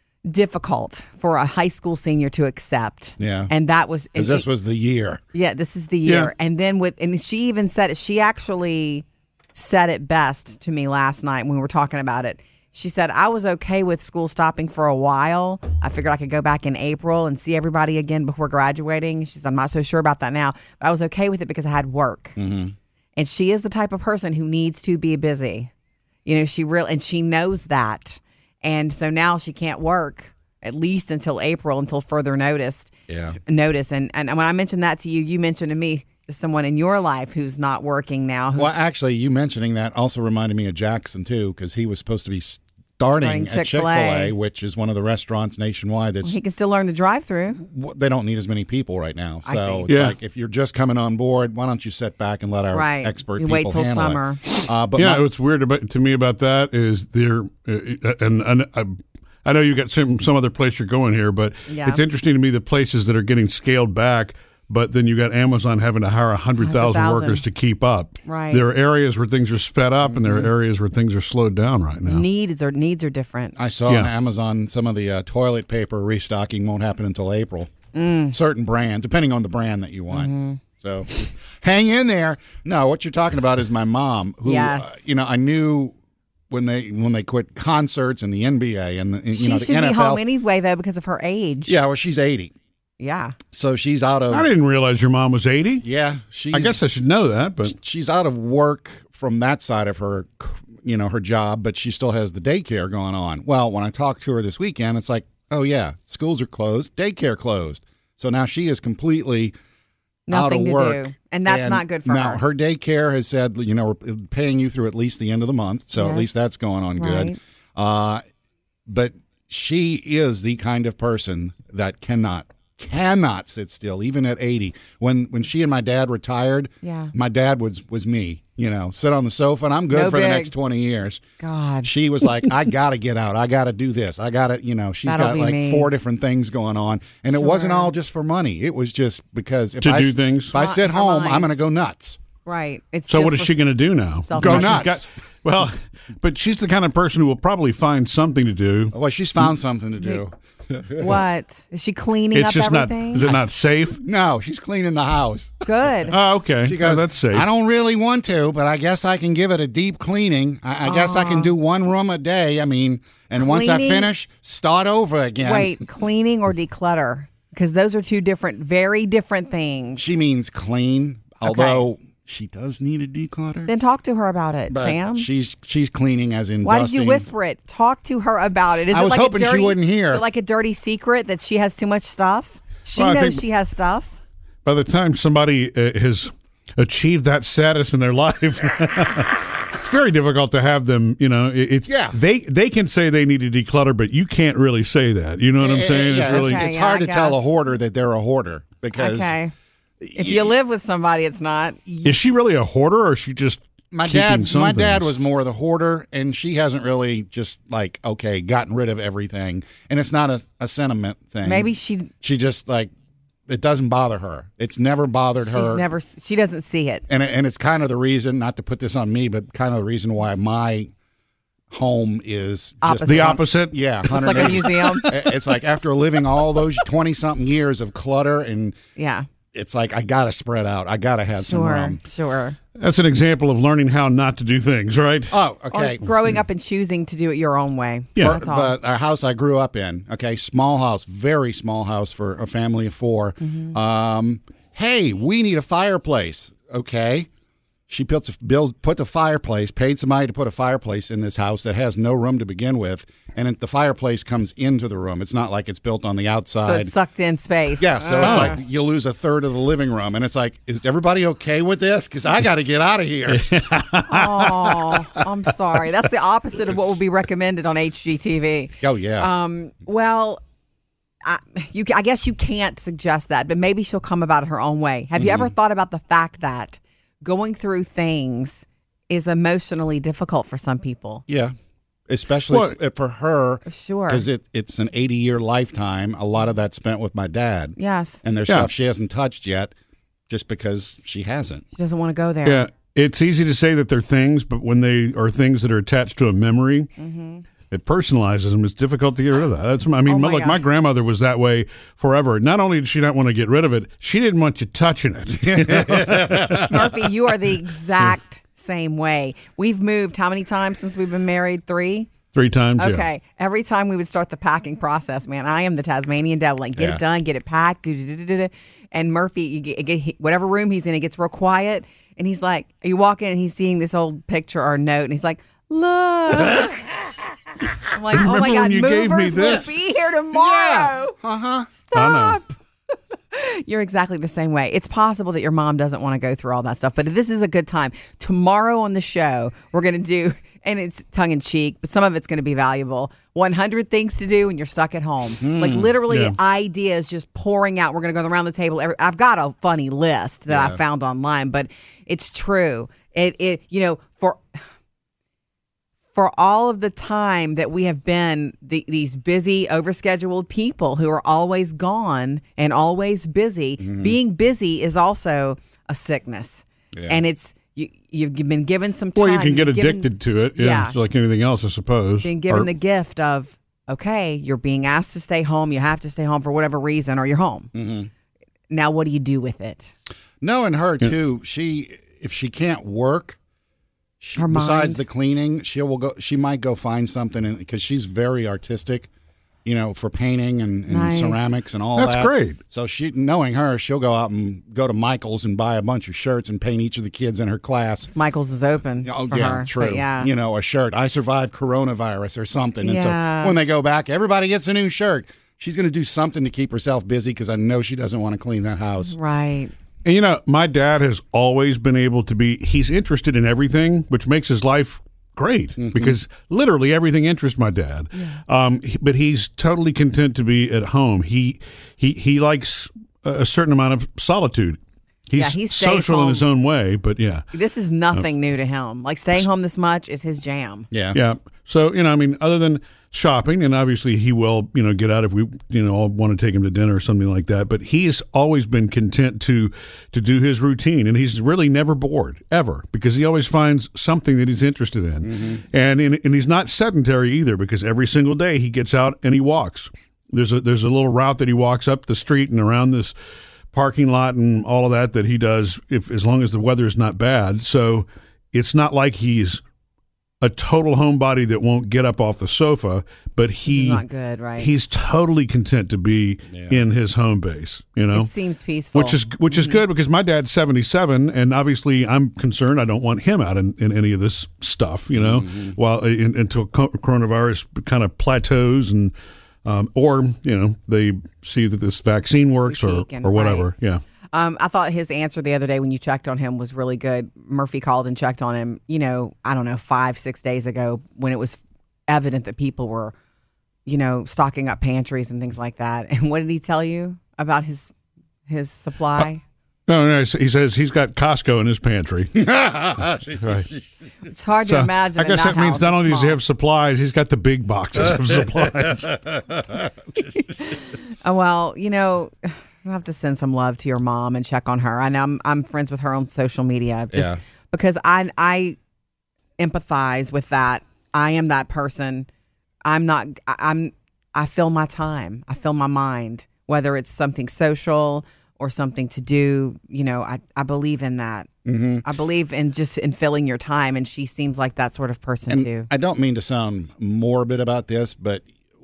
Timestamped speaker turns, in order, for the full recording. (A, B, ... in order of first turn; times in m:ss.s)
0:00.3-0:04.4 A
0:03.2-0:03.5 B
0:04.2-0:05.2 B
0:05.3-0:09.0 A
0:06.0-0:06.3 C
0:09.5-0:22.4 A
0:22.4-0:22.7 B
0:23.2-0:25.7 A
0:26.2-0:32.9 A
0:33.1-0:33.4 B
0:33.4-0:38.8 A
0:38.6-0:46.3 B
0:43.1-0:44.3 A
0:46.2-0:47.6 A
0:47.6-0:55.2 B
0:49.4-0:49.9 A
0:49.9-0:50.2 C
0:52.7-0:54.4 A
0:55.0-1:12.2 C
1:01.7-1:02.0 A
1:06.6-1:07.4 A
1:08.2-1:08.6 A
1:10.0-1:10.5 B
1:12.0-1:13.6 A
1:13.6-1:17.7 B
1:17.9-1:18.4 A
1:18.3-1:25.9 B
1:20.1-1:20.6 A
1:24.4-1:25.0 A
1:26.5-1:30.2 B
1:29.3-1:31.8 A
1:31.7-1:32.5 B
1:33.0-1:33.4 A
1:33.5-1:34.5 B
1:34.3-1:35.8 C
1:35.8-1:36.8 B
1:36.5-1:37.8 C
1:37.6-1:49.5 B
1:50.3-1:52.4 A
1:50.3-1:58.2 B
1:56.0-1:56.4 A
1:57.0-1:57.4 A
1:58.9-2:11.2 B
2:06.8-2:07.1 A
2:09.9-2:10.5 A
2:11.4-2:11.9 A
2:11.8-2:22.2 B
2:15.0-2:15.9 A
2:17.3-2:17.9 A
2:19.8-2:20.5 C
2:20.5-2:21.5 A
2:22.4-2:23.7 A
2:23.1-2:28.9 C
2:24.2-2:24.9 A
2:24.4-2:25.0 B
2:28.9-2:31.2 B
2:31.0-2:33.3 A
2:32.3-2:34.0 C
2:34.0-2:35.6 B
2:35.6-2:36.2 A
2:36.1-2:37.5 C
2:36.6-2:45.7 B
2:40.8-2:41.5 A
2:43.4-2:44.1 A
2:45.4-2:50.2 A
2:50.0-2:53.7 B
2:51.4-2:51.8 A
2:53.7-2:55.3 A
2:54.7-2:57.2 B
2:56.6-3:04.2 A
2:58.9-3:00.2 B
3:03.0-3:03.4 C
3:04.6-3:16.6 C
3:11.9-3:12.2 B
3:15.6-3:19.4 B
3:16.2-3:17.4 A
3:19.0-3:19.5 A
3:20.0-3:20.4 B
3:20.1-3:22.1 A
3:22.0-3:25.1 C
3:23.9-3:31.7 B
3:31.4-3:32.1 A
3:32.2-3:32.9 B
3:33.5-3:35.8 B
3:35.4-3:37.0 A
3:37.1-3:40.9 B
3:41.7-3:48.8 B
3:42.8-3:43.5 A
3:43.0-3:45.1 C
3:44.0-3:45.1 A
3:49.0-3:49.2 A
3:49.5-3:52.0 B
3:51.4-3:52.6 A
3:52.8-3:55.3 C
3:55.3-3:56.1 B
3:55.7-3:58.8 A
3:58.2-4:07.3 B
4:03.4-4:03.7 A
4:07.9-4:16.9 B
4:16.6-4:18.6 A
4:17.8-4:23.4 B
4:18.2-4:18.5 C
4:23.3-4:25.2 C
4:24.1-4:30.4 A
4:28.8-4:29.3 B
4:31.2-4:41.2 A
4:35.2-4:35.5 B
4:41.3-4:41.5 B
4:42.1-4:49.7 B
4:42.5-4:42.7 C
4:43.6-4:44.2 A
4:47.8-4:48.2 A
4:50.3-4:51.6 B
4:51.7-4:52.6 A
4:52.4-4:56.9 C
4:57.0-4:57.4 A
4:57.7-5:07.0 C
5:00.0-5:00.6 A
5:05.4-5:06.7 B
5:06.5-5:12.1 A
5:12.3-5:13.1 C
5:12.8-5:26.9 A
5:27.8-5:31.1 A
5:28.1-5:29.7 C
5:30.3-5:31.7 B
5:31.7-5:32.6 A
5:31.9-5:32.4 C
5:33.3-5:54.6 A
5:45.4-5:46.0 B
5:46.1-5:46.4 C
5:50.5-5:50.8 B
5:56.1-6:11.0 A
6:03.8-6:04.1 B
6:06.9-6:07.2 B
6:09.1-6:12.7 C
6:12.2-6:17.7 A
6:17.7-6:18.1 B
6:18.7-6:19.9 A
6:20.4-6:23.4 B
6:24.2-6:29.1 B
6:24.4-6:25.0 A
6:29.6-6:38.1 B
6:30.9-6:31.5 A
6:32.0-6:32.6 C
6:38.1-6:40.3 A
6:39.0-6:49.1 B
6:42.8-6:43.6 A
6:49.0-6:49.7 A
6:50.0-7:07.4 C
6:55.8-6:56.2 B
7:05.4-7:06.5 A
7:07.5-7:10.9 A
7:10.9-7:11.2 B
7:11.1-7:33.1 C
7:33.7-7:39.6 C
7:40.4-7:44.0 C
7:43.7-7:44.7 A
7:44.6-7:48.3 C
7:46.5-7:46.8 B
7:48.1-7:49.8 A
7:48.9-7:59.1 C
7:55.1-7:55.7 B
7:59.6-8:04.0 C
8:02.6-8:03.7 A
8:04.3-8:13.1 A
8:13.8-8:17.9 A
8:18.5-8:19.4 A
8:19.9-8:22.5 C
8:22.4-8:23.3 B
8:23.4-8:23.7 C
8:24.3-8:26.4 A
8:24.6-8:29.3 C
8:30.6-8:38.8 A
8:37.1-8:37.4 B
8:39.6-8:42.3 A
8:42.8-8:51.5 A
8:51.6-8:52.0 B
8:52.0-8:55.9 A
8:55.5-8:58.4 B